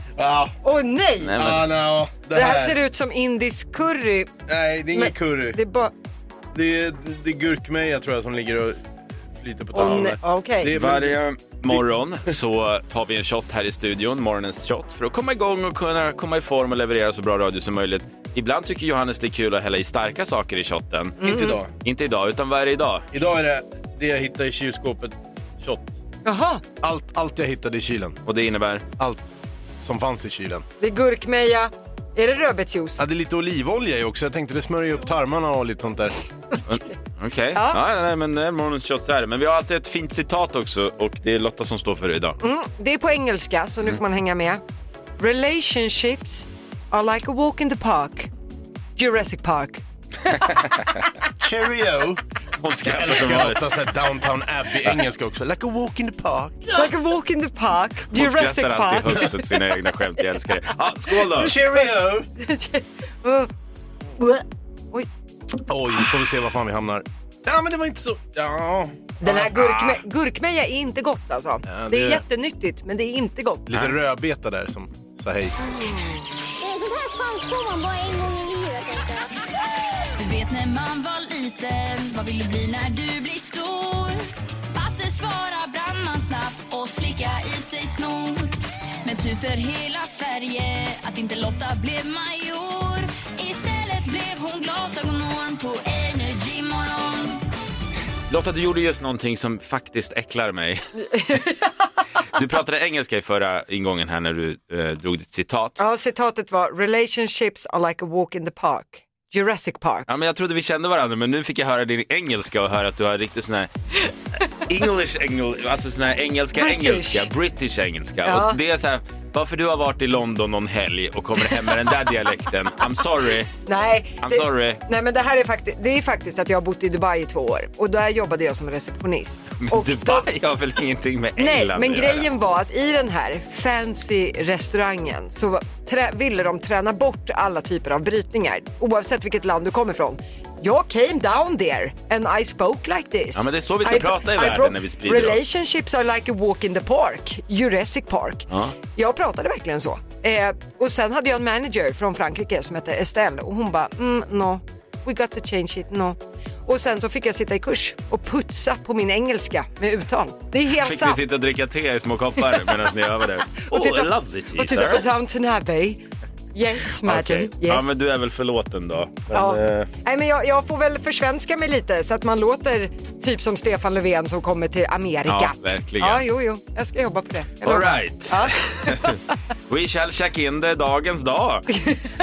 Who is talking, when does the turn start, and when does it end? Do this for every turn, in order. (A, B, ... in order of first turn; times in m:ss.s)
0:00.2-0:00.6 A
0:00.6-0:01.4 B
0:01.2-0:01.7 C
0:01.4-0:02.8 A
0:02.3-0:04.4 B
0:04.5-0:05.6 A
0:04.9-0:05.9 B
0:06.5-0:08.8 A
0:09.3-0:11.8 A
0:09.7-0:10.8 B
0:10.7-0:21.2 C
0:21.2-0:21.6 B
0:21.2-0:21.7 A
0:21.8-0:23.1 C
0:23.1-0:26.0 A
0:26.2-0:26.6 B
0:26.8-0:28.2 A
0:28.2-0:28.8 C
0:29.0-0:29.3 A
0:29.8-0:30.6 A
0:30.8-0:33.0 B
0:33.0-0:36.1 A
0:36.7-0:42.4 C
0:37.5-0:37.8 B
0:42.4-0:44.6 B
0:45.2-0:48.3 B
0:49.0-0:49.8 B
0:51.4-0:52.2 A
0:52.6-0:53.7 C
0:52.8-0:56.9 A
0:56.7-0:59.3 B
0:58.1-1:01.6 C
1:01.3-1:02.3 A
1:02.4-1:03.5 B
1:04.2-1:05.1 B
1:05.7-1:09.5 A
1:09.2-1:13.7 B
1:11.7-1:12.2 A
1:13.7-1:15.6 A
1:15.8-1:16.1 B
1:16.8-1:19.0 D
1:20.2-1:37.4 E
1:38.3-1:40.9 C
1:41.0-1:41.7 B
1:42.3-1:45.8 C
1:45.8-1:50.1 B
1:50.1-1:53.7 C
1:54.7-2:03.5 C
1:56.6-1:57.3 B
1:58.2-1:58.6 B
2:03.7-2:10.3 B
2:04.2-2:04.8 C
2:09.6-2:12.2 C
2:11.4-2:41.2 B
2:23.3-2:25.4 C
2:28.5-2:28.8 C
2:40.7-2:45.0 C
2:43.7-2:46.0 B
2:46.5-2:47.9 B
2:47.0-2:49.9 C
2:49.3-2:59.2 B
2:55.2-2:56.2 C
2:57.6-3:01.8 C
3:01.8-3:02.1 B